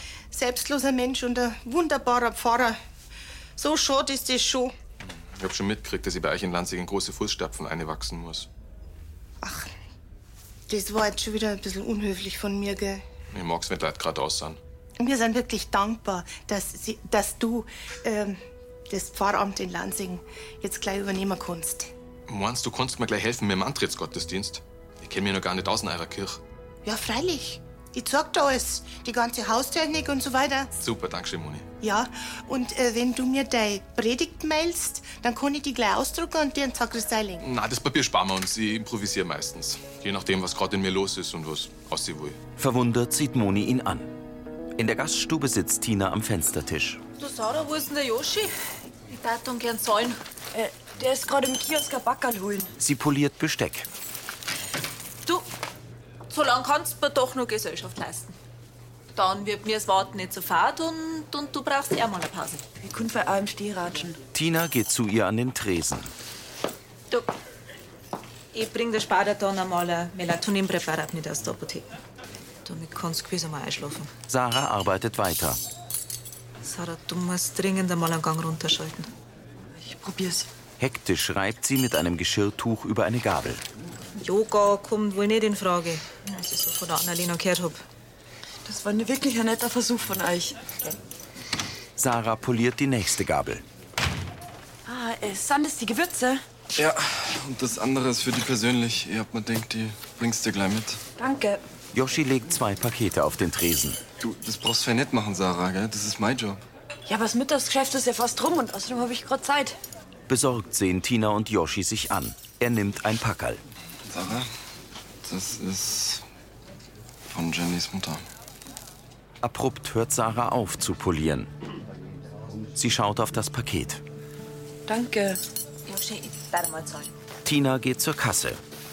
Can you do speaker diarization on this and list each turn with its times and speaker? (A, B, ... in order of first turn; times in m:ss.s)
0:00.3-0:02.8 A
0:03.6-0:04.7 A
0:05.0-0:08.5 B
0:09.4-0:09.7 A
0:10.7-0:13.0 A
0:13.3-0:14.6 B
0:15.0-0:21.9 A
0:22.3-0:26.4 B
0:26.8-0:30.7 A
0:30.8-0:31.7 B
0:31.8-0:37.4 A
0:37.4-0:42.4 B
0:42.6-0:44.1 C
0:44.8-0:47.0 C
0:47.2-0:48.5 D
0:49.1-0:50.2 D
0:50.5-0:52.7 E
0:52.8-0:53.9 C
0:56.3-0:58.4 D
0:59.2-1:02.6 D
1:02.8-1:04.2 E
1:04.3-1:06.1 C
1:08.5-1:11.9 D
1:12.6-1:14.1 D
1:14.3-1:15.6 C
1:16.6-1:19.1 D
1:19.7-1:20.5 E
1:20.8-1:23.6 C
1:24.2-1:27.8 D
1:28.6-1:30.6 E
1:32.0-1:33.6 C
1:34.9-1:36.4 E
1:36.8-1:41.0 F
1:41.2-1:41.6 E
1:41.9-1:44.0 C
1:44.2-1:46.6 F
1:47.1-1:49.8 E
1:50.3-1:53.6 C
1:54.1-1:54.5 F
1:55.2-1:56.2 F
1:57.3-1:58.2 F
1:59.4-2:01.5 C
2:02.8-2:04.0 C
2:04.9-2:05.4 E
2:05.9-2:07.1 D
2:07.4-2:08.6 C